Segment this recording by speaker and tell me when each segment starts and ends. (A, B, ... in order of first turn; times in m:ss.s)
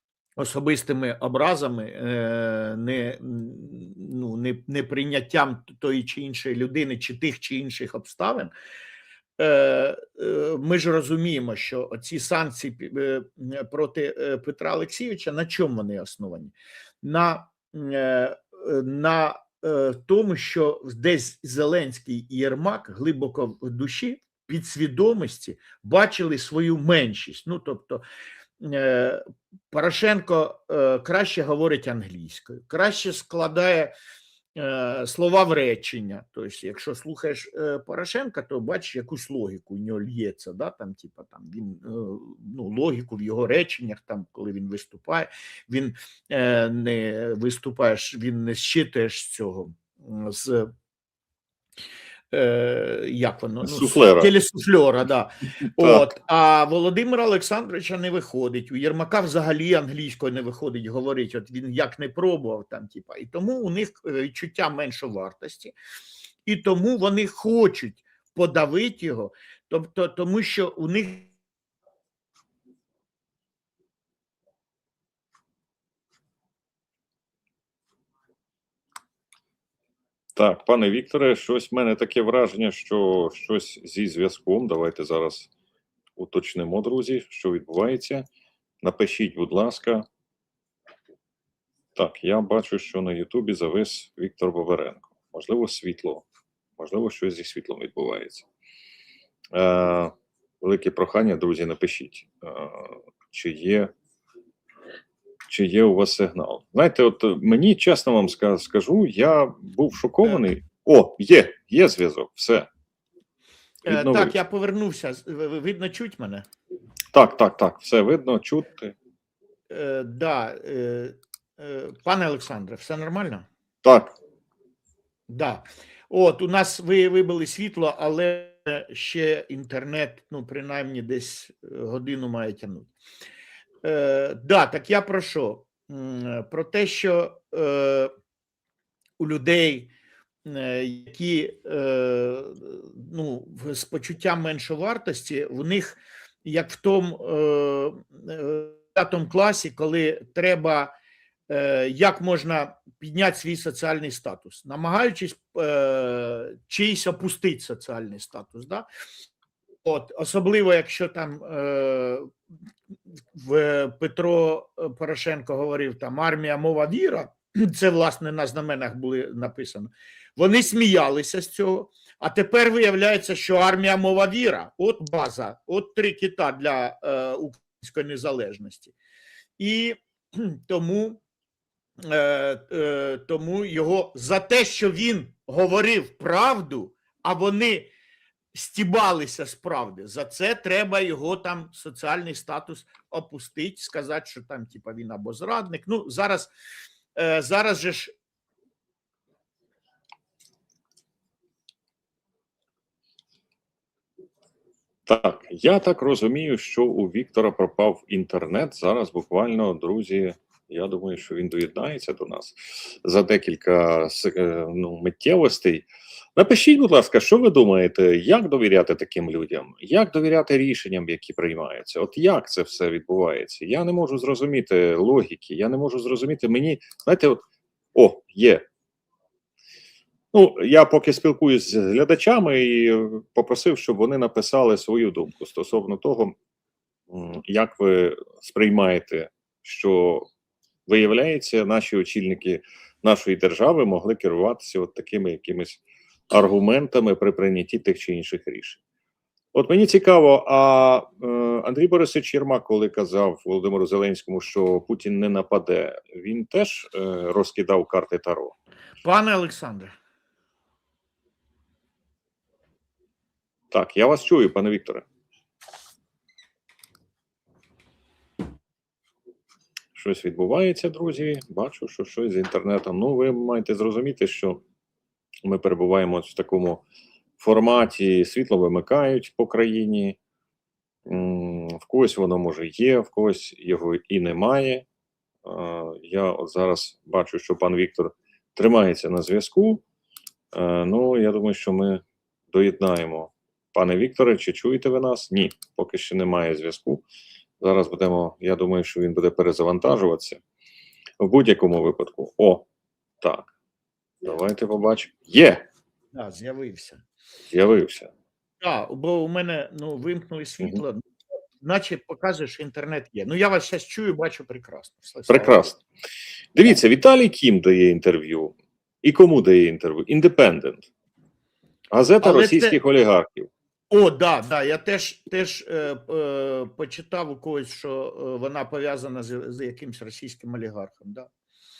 0:00.4-0:08.5 A
0:09.4-0:28.0 A
0:28.6-0:33.9 A
0:34.5-0:50.7 A
0:52.3-1:05.7 A
0:53.6-0:54.3 B
0:55.7-0:56.1 B
1:06.4-1:11.3 A
1:20.4-1:25.5 B
1:26.2-1:28.2 B
1:28.8-1:30.0 B
1:31.9-1:36.2 B
1:36.8-1:38.4 B
1:39.5-1:43.9 B
1:45.5-1:52.7 B
1:53.8-1:56.4 A
1:53.9-1:54.4 B
1:57.1-1:58.9 B
1:59.7-2:03.5 A
2:03.8-2:04.1 B
2:05.3-2:12.9 A
2:13.8-2:18.1 A
2:19.2-2:19.9 A
2:20.4-2:30.9 A
2:31.5-2:38.8 A
2:39.8-2:42.3 A
2:43.3-2:58.9 A
2:59.6-3:01.2 A
3:02.0-3:07.9 A
3:08.5-3:16.5 A
3:17.1-3:18.1 A
3:25.1-3:47.4 B
3:47.9-3:48.6 B
3:50.3-3:56.3 B
3:57.1-4:00.3 B
4:00.9-4:08.8 B
4:09.5-4:18.5 B
4:19.0-4:19.9 A
4:23.7-4:25.0 B
4:29.9-4:34.6 B
4:35.4-4:36.8 B
4:37.4-4:40.2 B
4:41.1-4:44.8 B
4:45.4-4:49.8 B
4:50.5-4:57.0 B
4:57.6-5:00.4 B
5:01.2-5:02.6 B
5:03.2-5:03.5 B
5:04.2-5:05.6 B
5:06.1-5:07.0 A
5:07.5-5:08.1 B
5:08.6-5:11.0 A
5:11.6-5:15.7 A
5:15.3-5:15.8 B
5:16.5-5:20.9 B
5:21.9-5:23.5 B
5:22.2-5:22.8 A
5:23.9-5:31.3 A